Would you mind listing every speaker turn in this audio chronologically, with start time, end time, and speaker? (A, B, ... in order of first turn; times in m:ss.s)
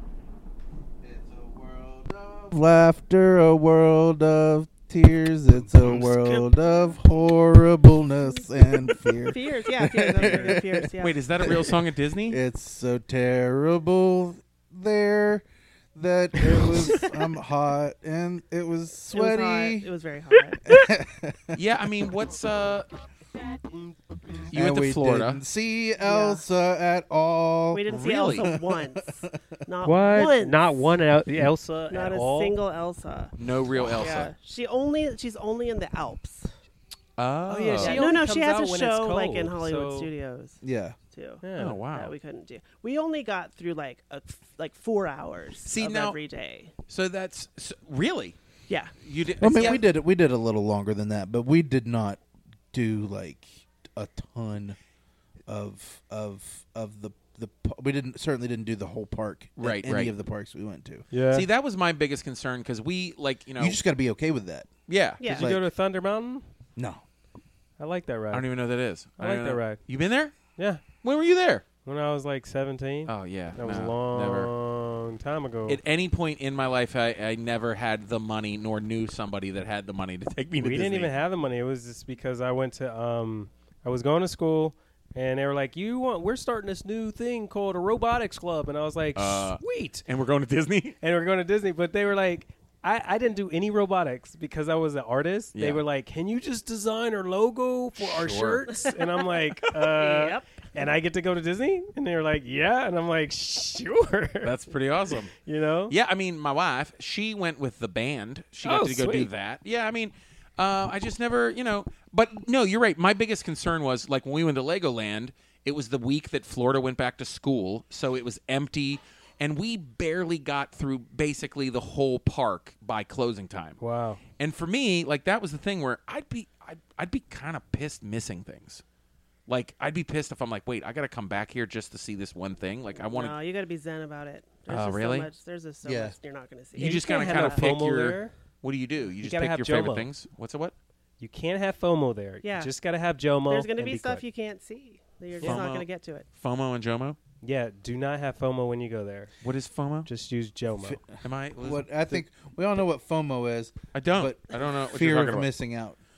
0:01.0-0:11.8 A
0:05.8-0:06.4 B
0:08.6-0:11.4 C
0:11.0-0:12.4 B
0:12.3-0:19.9 A
0:19.1-0:20.7 C
0:20.5-0:20.8 D
0:20.6-0:21.6 A
0:21.5-0:22.9 B
0:24.5-0:29.4 A
0:24.5-0:25.4 B
0:26.0-0:26.4 C
0:27.7-0:30.6 C
0:27.9-0:28.5 B
0:29.8-0:32.6 D
0:31.9-0:36.5 C
0:33.4-0:34.3 B
0:37.2-0:38.0 B
0:37.5-0:40.1 D
0:37.8-0:40.6 C
0:40.6-0:41.0 A
0:41.1-0:46.7 C
0:41.4-0:41.8 D
0:41.6-0:42.1 B
0:45.6-0:46.2 B
0:46.9-0:48.4 B
0:48.7-0:48.9 C
0:49.0-0:49.8 B
0:49.4-0:52.2 A
0:52.7-0:54.8 A
0:55.5-1:01.0 A
0:59.6-1:00.1 B
1:01.1-1:01.5 D
1:01.3-1:03.8 B
1:03.6-1:04.7 A
1:04.9-1:05.3 B
1:05.2-1:05.5 C
1:05.3-1:06.4 D
1:05.3-1:05.6 A
1:06.8-1:07.0 A
1:07.8-1:08.5 D
1:08.3-1:10.4 B
1:09.2-1:09.8 D
1:10.6-1:10.8 D
1:11.0-1:11.6 B
1:11.8-1:15.8 D
1:13.0-1:14.5 B
1:15.7-1:21.1 B
1:20.6-1:30.0 D
1:29.1-1:31.0 B
1:31.0-1:44.6 D
1:35.5-1:35.8 B
1:38.0-1:38.6 B
1:38.7-1:39.2 C
1:39.8-1:40.6 C
1:44.4-1:45.3 B
1:45.4-1:45.9 D
1:45.9-2:03.8 B
1:48.6-1:49.3 D
2:03.8-2:04.2 D
2:04.4-2:08.8 B
2:09.5-2:13.4 B
2:13.0-2:17.6 C
2:14.7-2:15.3 B
2:15.8-2:16.2 A
2:16.8-2:20.7 B
2:16.8-2:18.3 D
2:19.2-2:20.1 D
2:21.2-2:24.2 D
2:22.4-2:22.7 C
2:23.5-2:26.2 C
2:25.4-2:27.2 B
2:27.4-2:29.3 D
2:29.4-2:30.1 B
2:30.0-2:31.0 D
2:30.8-2:36.0 A
2:31.2-2:32.2 B
2:33.9-2:35.5 B